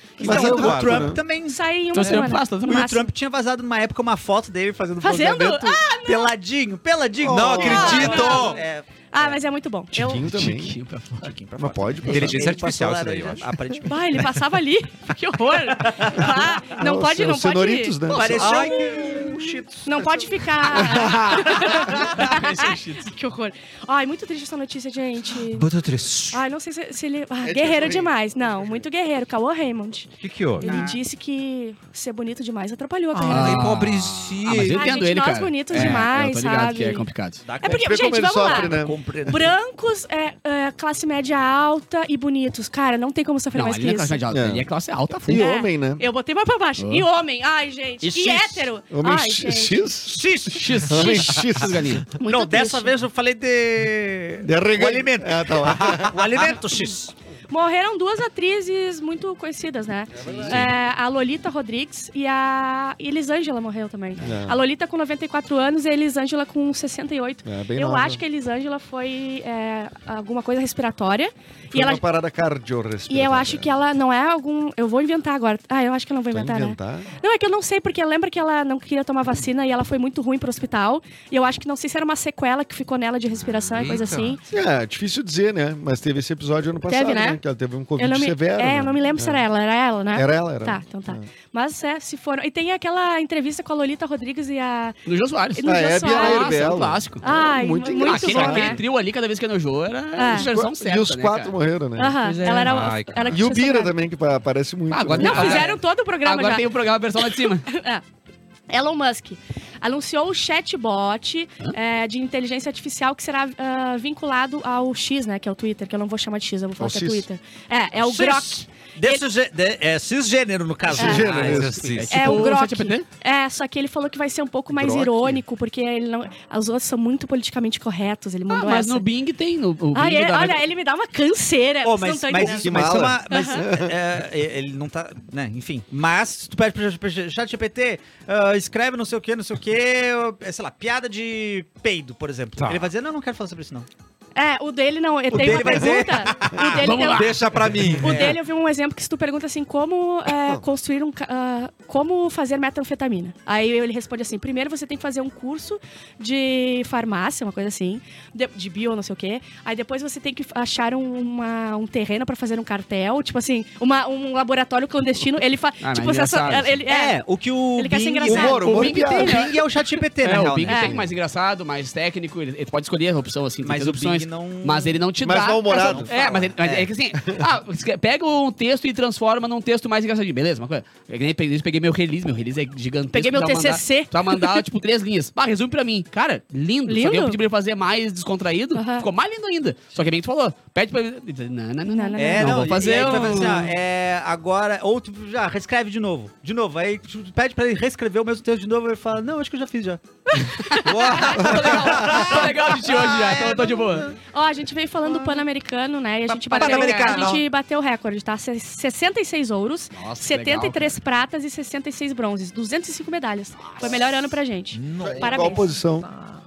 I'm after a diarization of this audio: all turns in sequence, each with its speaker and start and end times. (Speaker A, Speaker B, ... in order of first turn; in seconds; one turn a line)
Speaker A: 0.2-9.4
Speaker B: 0.2-1.2
Speaker C: 0.2-1.1
Speaker D: 1.5-3.1
Speaker E: 1.9-2.9
Speaker D: 5.0-6.3
Speaker C: 7.2-8.6
Speaker B: 7.3-7.7
Speaker D: 7.5-8.6
Speaker D: 9.1-10.2
Speaker B: 9.9-10.8
Speaker E: 10.1-11.3
Speaker A: 11.1-14.2
Speaker B: 11.6-12.5
Speaker C: 12.1-13.5
Speaker D: 13.9-18.2
Speaker A: 15.8-16.4
Speaker B: 16.7-18.6
Speaker A: 18.1-22.3
Speaker C: 18.2-18.9
Speaker D: 18.8-19.1
Speaker D: 19.8-25.7
Speaker B: 20.7-21.4
Speaker E: 22.1-23.0
Speaker C: 25.5-26.4
Speaker D: 26.3-33.7
Speaker B: 27.4-28.8
Speaker C: 30.2-30.7
Speaker A: 30.6-31.0
Speaker C: 33.1-34.9
Speaker E: 33.3-37.4
Speaker D: 34.7-37.0
Speaker A: 37.4-39.5
Speaker D: 37.6-44.2
Speaker B: 37.6-39.0
Speaker E: 43.5-45.4
Speaker B: 44.3-46.0
Speaker D: 45.3-49.9
Speaker E: 46.8-47.0
Speaker A: 48.0-48.7
Speaker B: 48.9-50.2
Speaker A: 50.0-51.2
Speaker E: 50.5-52.1
Speaker B: 50.7-52.0
Speaker D: 52.2-52.9
Speaker A: 52.2-57.1
Speaker B: 54.4-56.2
Speaker D: 57.5-72.0
Speaker B: 60.1-60.6
Speaker B: 64.2-64.6
Speaker B: 67.5-68.2
Speaker B: 71.7-73.7
Speaker D: 73.1-84.4
Speaker B: 76.3-77.1
Speaker C: 83.6-84.4
Speaker B: 84.5-89.4
Speaker D: 86.9-87.4
Speaker D: 88.0-95.0
Speaker B: 90.1-91.2
Speaker E: 95.0-97.2
Speaker D: 95.5-96.6
Speaker B: 95.6-98.8
Speaker D: 97.2-98.8
Speaker E: 98.0-101.5
Speaker D: 100.2-100.5
Speaker B: 100.3-102.2
Speaker D: 102.0-104.0
Speaker E: 102.2-102.9
Speaker C: 102.6-103.4
Speaker B: 103.3-105.6
Speaker E: 104.9-107.7
Speaker C: 105.1-105.7
Speaker D: 105.2-108.0
Speaker D: 108.7-119.2
Speaker B: 116.8-117.2
Speaker A: 118.0-121.7
Speaker B: 120.9-121.9
Speaker D: 121.0-121.3
Speaker E: 121.0-123.0
Speaker C: 121.3-122.4
Speaker D: 122.1-129.1
Speaker B: 124.7-125.4
Speaker E: 128.5-130.6
Speaker D: 129.9-133.7
Speaker A: 131.8-143.9
Speaker B: 132.3-133.9
Speaker C: 142.6-142.9
Speaker D: 144.3-167.2
Speaker A: 145.3-146.9
Speaker E: 146.8-147.6
Speaker C: 147.0-148.3
Speaker A: 148.0-148.3
Speaker E: 165.8-166.8
Speaker A: 166.9-171.0
Speaker D: 167.8-169.0
Speaker B: 168.2-169.5
Speaker E: 168.5-169.6
Speaker E: 170.2-193.6
Speaker D: 170.7-171.0
Speaker A: 173.6-175.0
Speaker B: 175.2-176.1
Speaker A: 175.8-176.9
Speaker C: 175.9-176.4
Speaker B: 177.1-177.4
Speaker D: 183.1-184.6
Speaker D: 186.9-187.4
Speaker D: 188.7-189.1
Speaker D: 191.9-193.4
Speaker A: 192.2-200.0
Speaker D: 200.3-201.4
Speaker E: 200.6-204.1
Speaker C: 200.8-202.3
Speaker A: 201.8-204.1
Speaker D: 204.3-215.7
Speaker A: 206.5-207.4
Speaker C: 206.5-207.4
Speaker E: 206.6-207.4
Speaker E: 209.9-211.0
Speaker C: 214.7-215.6
Speaker B: 215.0-216.1